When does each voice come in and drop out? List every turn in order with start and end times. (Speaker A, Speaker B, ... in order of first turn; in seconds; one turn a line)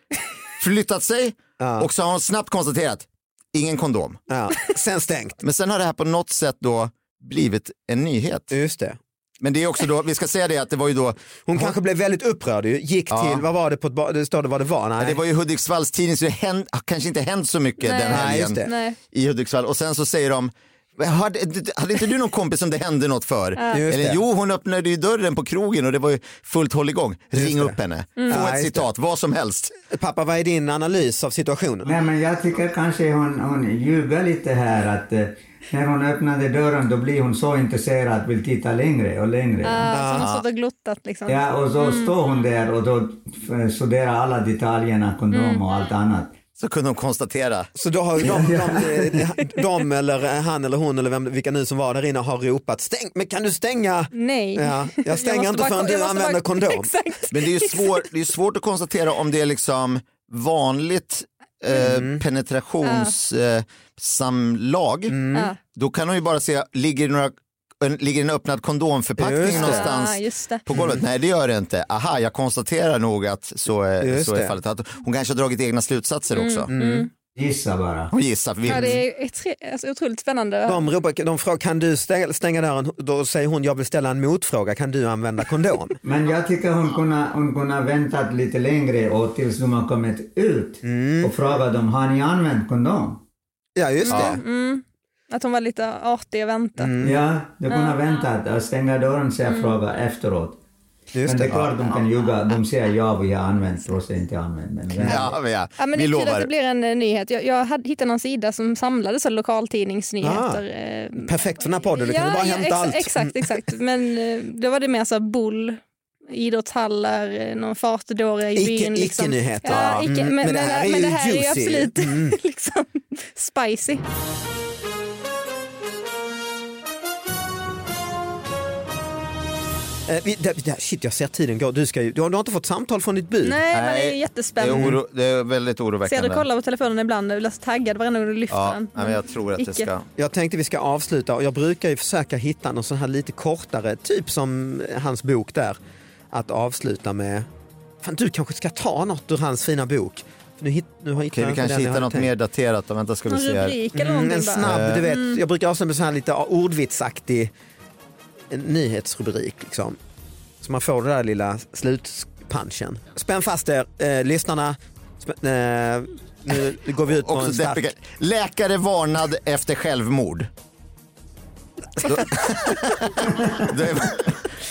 Speaker A: 0.6-4.2
Speaker B: 1.6-1.9
Speaker B: 4.3-5.4
Speaker A: 5.4-8.5
Speaker B: 8.5-9.0
Speaker A: 9.4-11.8
Speaker B: 11.4-15.2
Speaker A: 13.1-13.4
Speaker A: 15.0-29.7
Speaker C: 17.8-19.0
Speaker B: 18.1-18.7
Speaker C: 23.6-23.8
Speaker B: 23.7-24.2
Speaker B: 27.4-28.9
Speaker C: 28.2-28.5
Speaker B: 29.9-31.9
Speaker D: 31.8-40.0
Speaker C: 39.6-42.1
Speaker B: 39.9-40.3
Speaker A: 40.2-40.4
Speaker D: 41.3-46.3
Speaker C: 45.3-45.6
Speaker A: 46.6-47.7
Speaker B: 47.7-56.9
Speaker D: 48.2-49.2
Speaker C: 54.1-58.0
Speaker A: 57.3-76.7
Speaker B: 61.7-62.2
Speaker C: 62.8-63.1
Speaker B: 65.1-65.5
Speaker B: 69.2-69.9
Speaker C: 69.4-70.6
Speaker B: 70.7-71.0
Speaker B: 74.0-74.5
Speaker C: 76.3-77.1
Speaker B: 76.7-77.1
Speaker D: 77.3-78.1
Speaker A: 78.1-79.0
Speaker C: 78.7-80.9
Speaker B: 80.7-86.0
Speaker D: 86.0-93.2
Speaker B: 90.8-91.3
Speaker B: 93.8-94.4
Speaker C: 94.0-97.1
Speaker A: 94.1-94.4
Speaker B: 96.8-97.2
Speaker D: 97.0-100.6
Speaker C: 97.7-98.0
Speaker C: 99.5-99.8
Speaker B: 101.1-101.6
Speaker D: 101.2-105.4
Speaker A: 105.0-106.5
Speaker C: 105.8-124.0
Speaker B: 110.2-110.6
Speaker B: 111.2-113.7
Speaker B: 118.6-122.4
Speaker A: 119.7-120.1
Speaker B: 130.1-133.6
Speaker C: 133.4-135.0
Speaker A: 133.7-136.4
Speaker B: 134.7-135.0
Speaker C: 136.1-139.9
Speaker A: 138.5-140.1
Speaker B: 140.2-145.8
Speaker B: 146.3-147.5
Speaker B: 148.0-152.3
Speaker A: 151.2-153.8
Speaker C: 153.3-155.4
Speaker B: 153.9-157.5
Speaker A: 154.6-155.1
Speaker B: 158.5-160.0
Speaker B: 160.6-167.9
Speaker A: 167.1-170.5
Speaker A: 172.0-174.5